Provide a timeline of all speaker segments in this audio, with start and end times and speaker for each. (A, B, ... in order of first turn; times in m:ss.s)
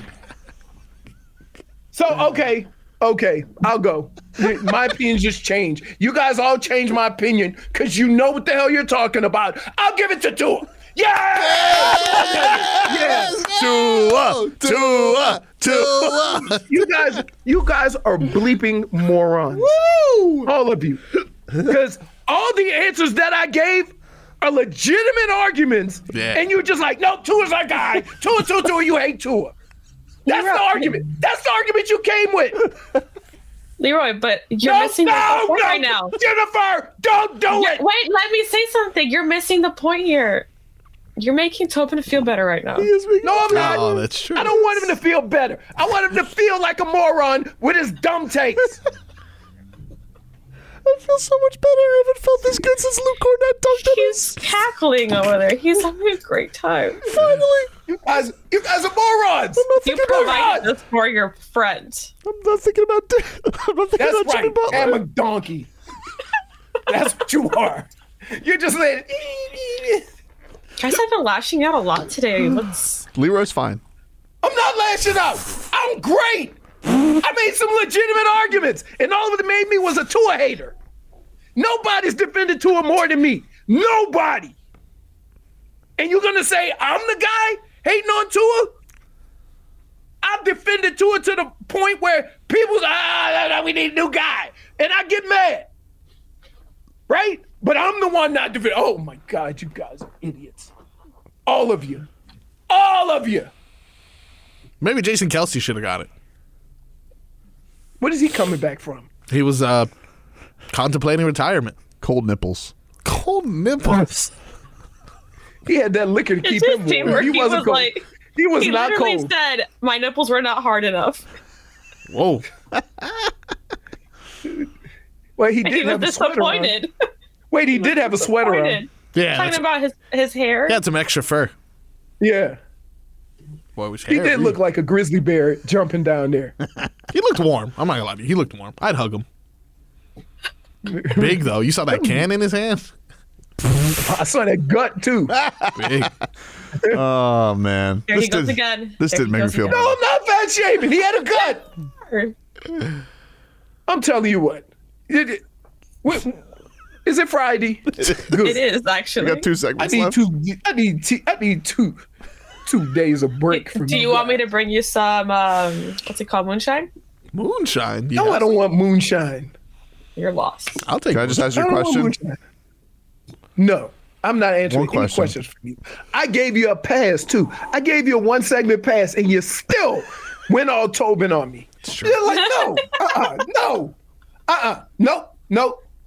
0:01.9-0:13.5 A
0:11.5-0:17.1 B
0:11.8-0:15.4 C
0:15.6-0:19.7 A
0:19.7-0:20.5 B
0:20.4-0:29.5 A
0:26.1-0:26.4 B
0:30.2-0:31.0 D
0:30.3-0:32.7 A
0:33.8-0:36.1 D
0:34.6-0:37.8 A
0:37.5-0:40.5 D
0:41.2-0:42.9 D
0:42.8-0:43.8 C
0:43.2-0:48.8 A
0:43.5-0:44.9 B
0:50.8-0:54.4 C
0:53.7-0:57.2 D
0:57.1-0:57.7 C
0:57.9-1:00.7 A
0:59.6-1:00.4 C
0:59.8-1:02.1 D
1:02.2-1:05.0 C
1:04.0-1:05.7 A
1:06.9-1:10.0 A
1:10.8-1:13.0 D
1:13.1-1:13.8 C
1:14.4-1:16.6 A
1:17.1-1:20.7 A
1:21.6-1:24.5 A
1:26.0-1:28.7 A
1:30.2-1:35.7 A
1:37.1-1:40.7 A
1:41.4-1:42.1 A
1:42.7-1:43.5 A
1:44.8-1:46.1 B
1:48.0-1:49.1 A
1:49.3-1:49.9 B
1:50.7-1:51.8 B
1:52.0-1:52.7 C
1:53.0-1:54.3 B
1:55.6-1:59.3 A
1:56.4-1:58.0 D
1:58.6-2:01.2 D
2:02.1-2:02.5 B
2:05.4-2:06.8 A
2:05.6-2:06.9 D
2:07.5-2:08.8 A
2:07.8-2:10.8 D
2:09.1-2:09.6 B
2:10.7-2:11.5 B
2:12.2-2:12.6 A
2:13.8-2:14.6 B
2:14.1-2:16.6 A
2:17.1-2:19.2 B
2:20.8-2:22.2 A
2:21.1-2:22.9 B
2:23.9-2:25.4 A
2:25.6-2:25.9 C
2:25.7-2:26.1 B
2:26.9-2:29.9 C
2:28.1-2:29.9 D
2:29.7-2:31.6 A
2:32.0-2:32.3 D
2:33.9-2:35.4 A
2:36.0-2:36.4 A
2:37.0-2:38.6 A
2:38.4-2:39.5 D
2:39.2-2:40.2 C
2:39.8-2:42.0 A
2:42.6-2:44.4 A
2:43.5-2:46.9 D
2:47.3-2:48.4 B
2:48.1-2:49.5 A
2:50.2-2:50.8 D
2:50.8-2:51.5 B
2:51.1-2:52.2 C
2:51.5-2:52.4 A
2:53.6-3:03.9 A
2:54.7-2:55.3 C
3:01.8-3:02.2 B
3:04.5-3:05.8 A